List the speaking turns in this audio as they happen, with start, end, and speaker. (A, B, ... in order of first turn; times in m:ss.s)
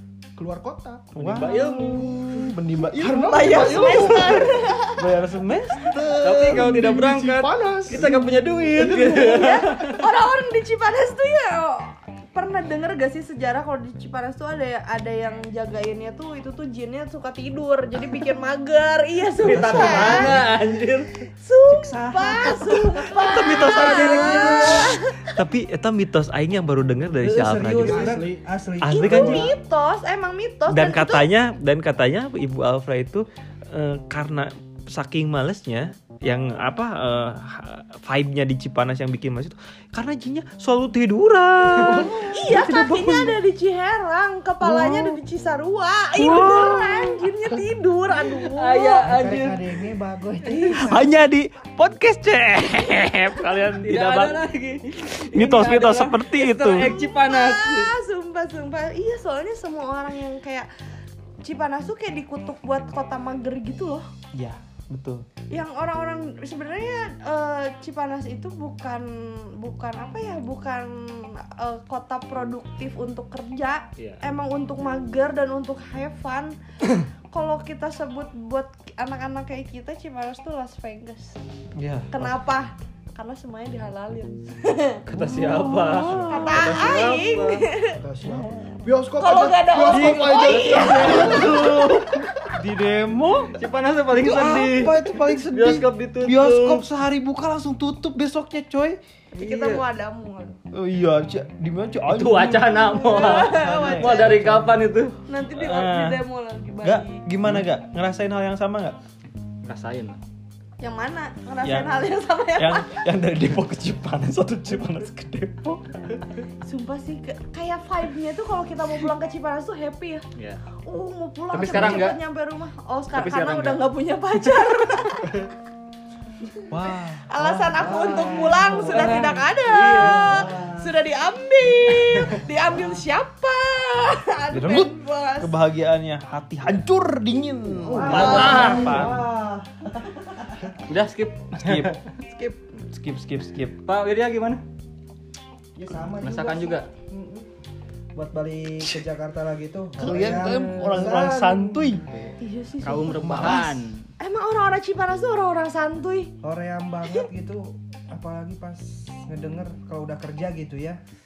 0:00.4-0:01.1 A
0:01.1-0:06.6 B
0:01.2-0:02.1 C
0:02.3-0:04.9 A
0:03.2-0:05.0 D
0:05.8-0:09.4 A
0:06.2-0:10.0 C
0:09.1-0:20.4 D
0:19.4-0:21.0 B
0:19.4-0:20.6 E
0:19.5-0:21.1 C
0:21.4-0:25.3 D
0:21.7-0:22.6 E
0:22.9-0:28.2 B
0:23.9-0:25.0 E
0:27.2-0:29.5 E
0:27.8-0:28.4 A
0:28.8-0:29.5 B
0:28.9-0:31.3 D
0:29.1-0:29.5 A
0:30.7-0:43.4 B
0:41.8-0:42.3 A
0:42.2-0:49.1 D
0:44.8-0:45.0 B
0:46.1-0:47.3 B
0:48.4-0:49.6 C
0:49.0-0:51.1 E
0:50.7-0:54.4 B
0:53.7-0:58.0 C
0:55.1-0:56.9 B
0:56.8-1:00.7 D
1:01.4-1:04.0 D
1:04.3-1:05.2 B
1:05.5-1:16.5 D
1:14.0-1:14.2 C
1:17.3-1:21.4 D
1:21.8-1:22.3 B
1:22.1-1:25.0 D
1:25.1-1:27.7 C
1:25.1-1:27.0 B
1:26.2-1:28.0 D
1:27.9-1:32.5 A
1:28.2-1:28.8 B
1:29.2-1:31.6 D
1:29.9-1:33.6 B
1:30.2-1:31.6 C
1:33.6-1:36.9 C
1:34.1-1:39.0 B
1:39.3-1:40.6 D
1:39.4-1:39.8 C
1:40.7-1:44.7 B
1:42.1-1:45.2 C
1:43.0-1:44.5 D
1:45.3-1:47.2 D
1:45.5-1:46.2 B
1:46.8-1:49.0 B
1:49.6-1:50.2 C
1:50.8-1:53.0 D
1:51.6-1:56.2 B
1:56.6-2:00.2 D
2:00.8-2:05.4 D
2:01.5-2:02.2 C
2:03.1-2:03.8 C
2:06.7-2:10.5 B
2:07.2-2:15.5 D
2:07.7-2:11.0 E
2:08.8-2:10.2 C
2:14.5-2:19.2 B
2:17.8-2:20.8 E
2:18.0-2:19.2 C
2:20.9-2:22.0 C
2:21.5-2:22.0 B
2:22.7-2:23.8 B
2:23.8-2:24.6 C
2:25.7-2:27.5 E
2:26.2-2:26.9 C
2:28.1-2:32.3 E
2:30.0-2:32.0 B
2:32.4-2:36.3 D
2:32.8-2:34.1 C
2:33.2-2:33.6 E
2:36.4-2:41.0 E